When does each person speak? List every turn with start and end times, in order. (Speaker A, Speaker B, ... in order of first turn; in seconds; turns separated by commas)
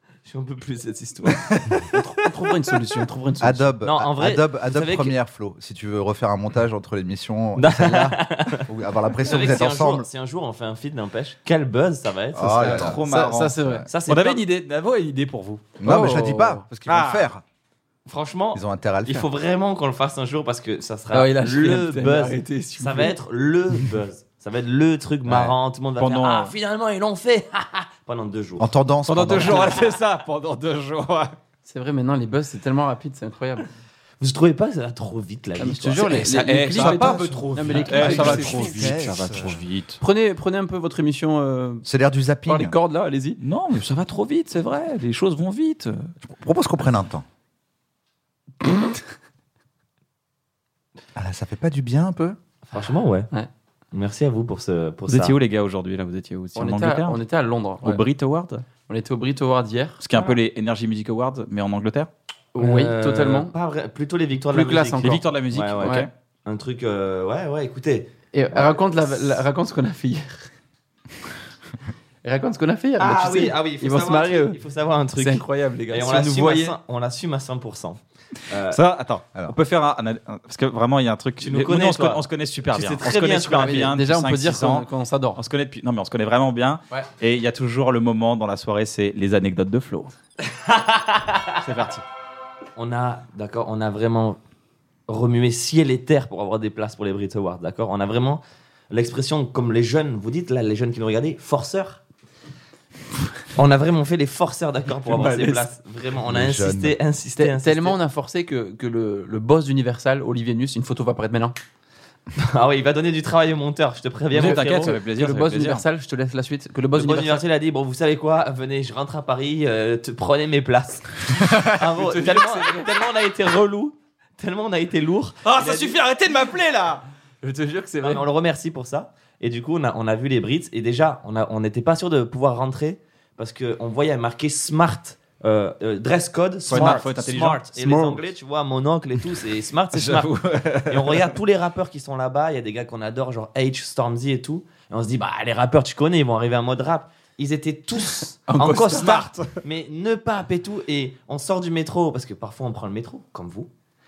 Speaker A: 0.2-1.4, Speaker B: 1.3-1.9, Speaker C: 1.9-3.7, Speaker D: 3.4-10.1, Speaker A: 3.8-5.1, Speaker A: 7.5-8.7, Speaker A: 9.2-12.9, Speaker D: 12.3-13.0, Speaker C: 12.6-13.8, Speaker B: 12.6-15.7, Speaker D: 13.6-13.9, Speaker A: 13.9-14.4, Speaker D: 15.8-17.4, Speaker C: 15.8-16.6, Speaker B: 16.9-17.3, Speaker A: 18.1-28.7, Speaker D: 18.5-19.3, Speaker C: 21.1-23.1, Speaker D: 25.2-25.6, Speaker B: 26.0-26.5, Speaker D: 28.6-29.7, Speaker B: 29.0-31.3, Speaker A: 29.4-29.9, Speaker C: 31.6-33.6, Speaker A: 34.2-36.2, Speaker C: 35.6-38.9, Speaker D: 36.0-39.6, Speaker B: 36.0-40.0, Speaker C: 40.0-41.9, Speaker D: 41.8-42.8, Speaker C: 42.5-43.4, Speaker B: 43.4-46.1, Speaker D: 46.3-47.2, Speaker D: 51.1-52.4, Speaker A: 52.7-53.3, Speaker A: 53.9-55.4, Speaker B: 55.1-57.2, Speaker C: 56.5-58.0, Speaker B: 57.8-58.6, Speaker C: 58.9-60.0, Speaker B: 60.0-62.1, Speaker C: 62.5-63.5, Speaker A: 62.6-69.3, Speaker C: 64.5-65.2, Speaker B: 65.0-66.1, Speaker C: 65.8-66.1, Speaker C: 68.3-70.5, Speaker C: 72.2-74.6, Speaker A: 73.0-78.8, Speaker C: 75.2-76.8, Speaker B: 78.7-90.1, Speaker A: 81.4-83.9, Speaker C: 83.6-85.4, Speaker A: 90.5-91.5, Speaker B: 91.6-92.0, Speaker A: 92.8-94.4, Speaker A: 95.1-102.0, Speaker A: 103.5-108.0, Speaker C: 105.0-105.6, Speaker D: 106.2-107.0, Speaker C: 107.4-111.6, Speaker A: 112.4-114.9, Speaker B: 114.3-115.8, Speaker C: 114.3-117.4, Speaker A: 116.9-126.0, Speaker C: 121.9-122.9, Speaker B: 125.5-127.0, Speaker C: 127.4-128.2, Speaker A: 128.0-140.3, Speaker B: 136.7-138.3, Speaker C: 136.7-137.0, Speaker B: 139.9-141.3, Speaker A: 140.9-153.7, Speaker C: 148.5-149.2, Speaker B: 148.6-149.5